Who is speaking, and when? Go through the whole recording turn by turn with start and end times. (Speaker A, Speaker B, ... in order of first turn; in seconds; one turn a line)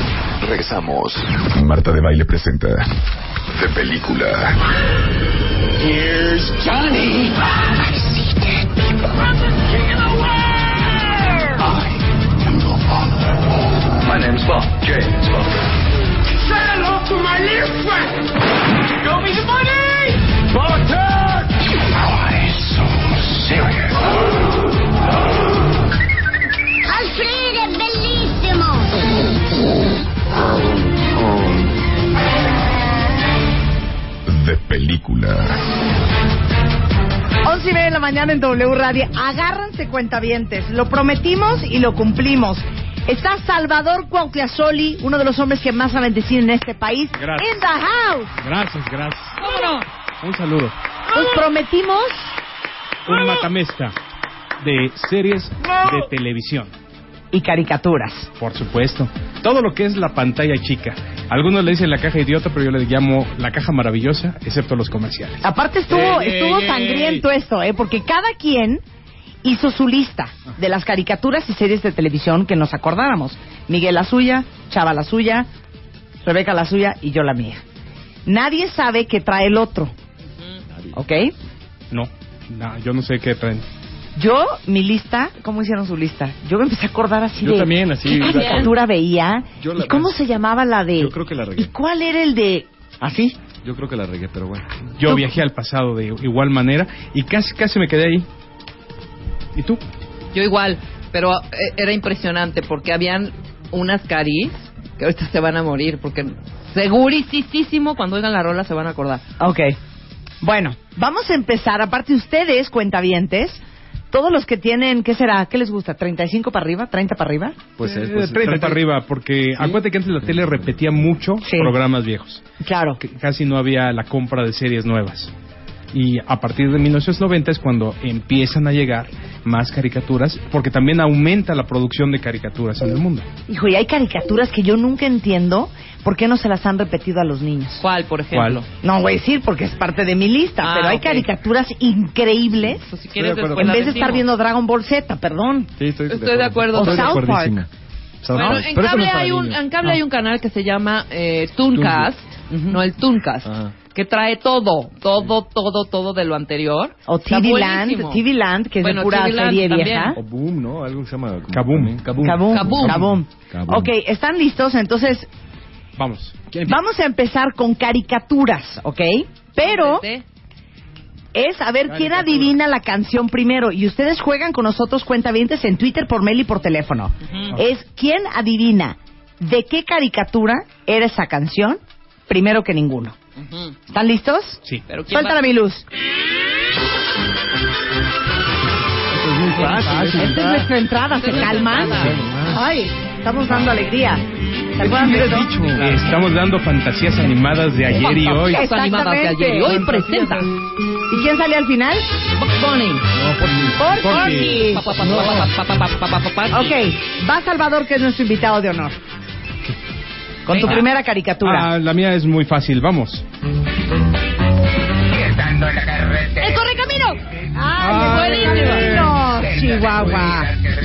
Speaker A: 0.4-2.9
Speaker A: 3.5-4.5
Speaker B: 5.8-7.3
Speaker B: 14.0-15.6
Speaker B: 17.0-17.8
Speaker B: 19.1-19.9
Speaker B: 20.5-21.2
Speaker C: 26.9-29.0
Speaker A: 34.3-35.5
Speaker D: 37.4-48.3
Speaker E: 47.2-47.5
Speaker E: 48.4-49.4
Speaker F: 49.4-49.9
Speaker E: 50.2-50.8
Speaker D: 51.1-52.3
Speaker E: 53.1-53.9
Speaker E: 54.6-56.7
Speaker D: 57.3-58.3
Speaker E: 58.4-65.5
Speaker D: 65.4-68.8
Speaker E: 66.0-66.9
Speaker D: 69.4-75.5
Speaker D: 76.2-77.6
Speaker D: 78.3-79.9
Speaker D: 80.9-81.3
Speaker E: 81.9-83.7
Speaker D: 84.2-93.4
Speaker G: 87.4-88.8
Speaker F: 88.1-88.7
Speaker G: 89.6-90.2
Speaker G: 91.0-91.7
Speaker G: 93.6-94.7
Speaker E: 95.0-98.3
Speaker E: 99.5-99.8
Speaker F: 100.3-109.2
Speaker D: 109.4-109.8
Speaker D: 110.4-117.6
Speaker G: 117.8-118.8
Speaker E: 117.8-122.4
Speaker G: 119.6-121.1
Speaker D: 121.4-121.7
Speaker D: 122.6-123.0
Speaker E: 123.0-125.3
Speaker E: 125.9-133.3
Speaker D: 133.5-137.8
Speaker F: 137.8-138.7
Speaker E: 138.3-138.6
Speaker D: 138.8-142.8
Speaker F: 140.6-141.3
Speaker F: 142.8-144.2
Speaker G: 143.2-143.9
Speaker D: 143.5-145.7
Speaker G: 145.8-147.7
Speaker F: 146.1-147.2
Speaker D: 146.7-147.6
Speaker G: 148.2-150.0
Speaker F: 148.3-158.2
Speaker G: 151.7-152.1
Speaker G: 153.4-153.8
Speaker D: 157.1-160.2
Speaker F: 158.8-160.2
Speaker G: 160.2-163.9
Speaker E: 161.5-161.9
Speaker D: 162.2-165.3
Speaker F: 162.5-163.0
Speaker E: 166.0-166.3
Speaker G: 166.5-166.8
Speaker D: 166.7-170.1
Speaker F: 169.6-170.2
Speaker D: 171.3-183.2
Speaker G: 171.9-172.6
Speaker F: 177.2-177.6
Speaker F: 183.4-183.8
Speaker D: 183.9-185.8
Speaker F: 184.9-185.5
Speaker G: 189.1-190.7
Speaker F: 189.5-190.1
Speaker D: 190.2-194.2
Speaker F: 191.1-192.2
Speaker G: 191.3-192.8
Speaker G: 193.5-193.8
Speaker D: 194.8-195.6
Speaker G: 194.8-196.1
Speaker E: 195.8-198.7
Speaker F: 197.9-200.5
Speaker D: 198.3-199.8
Speaker E: 199.7-200.3
Speaker D: 201.1-202.1
Speaker F: 202.4-203.1
Speaker G: 203.2-203.9
Speaker D: 203.8-205.0
Speaker E: 204.0-204.7
Speaker F: 204.1-206.8
Speaker G: 205.0-205.5
Speaker D: 206.5-209.0
Speaker D: 210.5-211.7
Speaker F: 210.5-210.8
Speaker E: 211.4-213.2
Speaker F: 216.4-217.2
Speaker D: 217.6-220.5
Speaker E: 217.8-219.2
Speaker F: 217.9-218.9